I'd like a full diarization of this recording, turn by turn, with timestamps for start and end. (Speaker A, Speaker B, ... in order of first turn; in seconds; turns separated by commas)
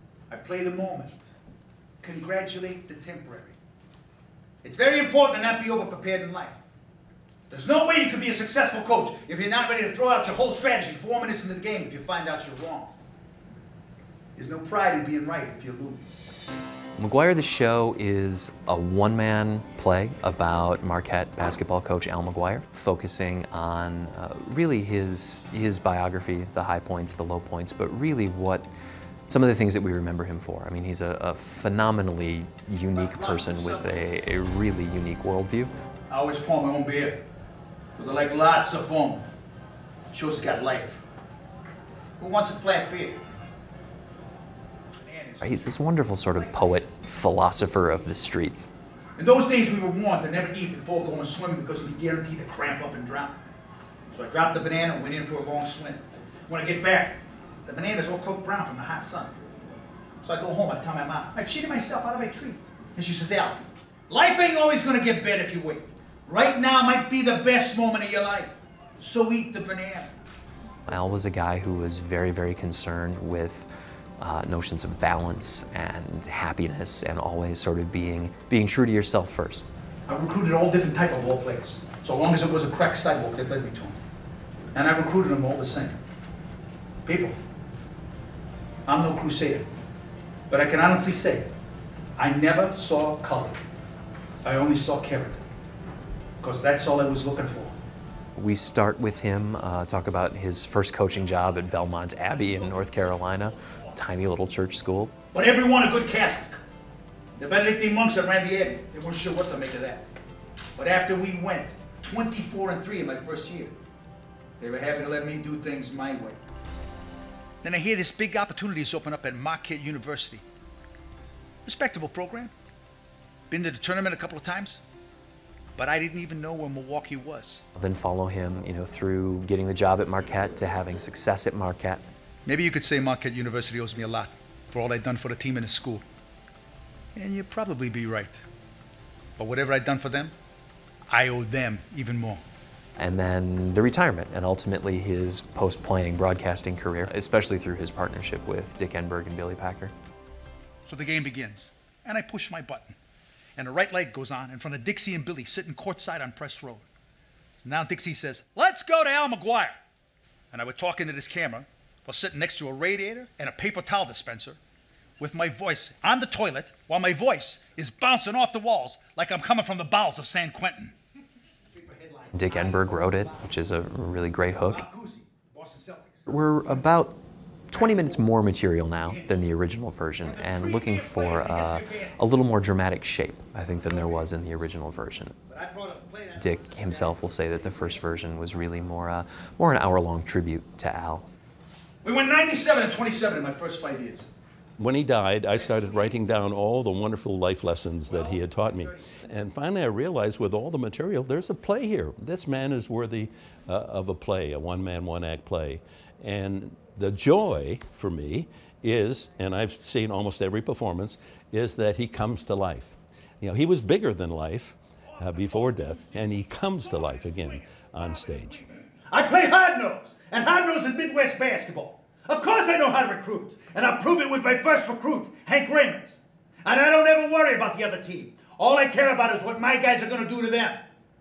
Speaker A: 0.3-1.3, Speaker A: 2.0-3.6, Speaker A: 4.6-6.6, Speaker A: 7.5-12.9, Speaker A: 14.3-16.3, Speaker B: 17.0-28.7, Speaker B: 29.3-35.7, Speaker A: 32.9-34.0, Speaker A: 36.1-37.2, Speaker A: 38.0-39.2, Speaker A: 40.1-41.0, Speaker A: 42.2-43.2, Speaker A: 45.0-46.8, Speaker B: 45.4-48.7, Speaker A: 49.2-53.4, Speaker A: 54.1-59.3, Speaker A: 60.2-70.2, Speaker B: 70.9-73.7, Speaker B: 74.2-79.7, Speaker A: 80.1-84.0, Speaker A: 84.7-86.0, Speaker A: 87.0-87.4, Speaker A: 88.9-89.7, Speaker A: 90.5-91.5, Speaker A: 92.2-93.6, Speaker A: 94.4-95.4, Speaker A: 96.4-97.8, Speaker B: 98.4-105.1, Speaker A: 105.3-106.6, Speaker A: 107.4-110.0, Speaker A: 110.8-113.8, Speaker A: 114.6-116.4, Speaker A: 117.6-120.4, Speaker A: 121.7-122.5, Speaker A: 123.5-124.8, Speaker A: 125.8-127.6, Speaker B: 127.8-132.0, Speaker A: 132.5-136.0, Speaker A: 137.2-138.4, Speaker A: 139.4-140.3, Speaker A: 141.1-142.4, Speaker B: 143.0-149.9, Speaker A: 150.9-152.9, Speaker A: 153.6-156.9, Speaker A: 157.6-159.8, Speaker A: 160.5-164.6, Speaker A: 165.2-170.9, Speaker A: 171.7-173.5, Speaker B: 172.3-174.8, Speaker A: 174.7-176.3, Speaker B: 176.3-177.2, Speaker B: 177.7-185.3, Speaker A: 177.8-178.3, Speaker A: 179.1-179.4, Speaker A: 180.2-182.2, Speaker A: 183.8-184.3, Speaker A: 185.5-188.8, Speaker B: 186.4-191.3, Speaker A: 192.0-194.3, Speaker C: 194.8-218.7, Speaker A: 198.6-199.1, Speaker A: 219.1-230.8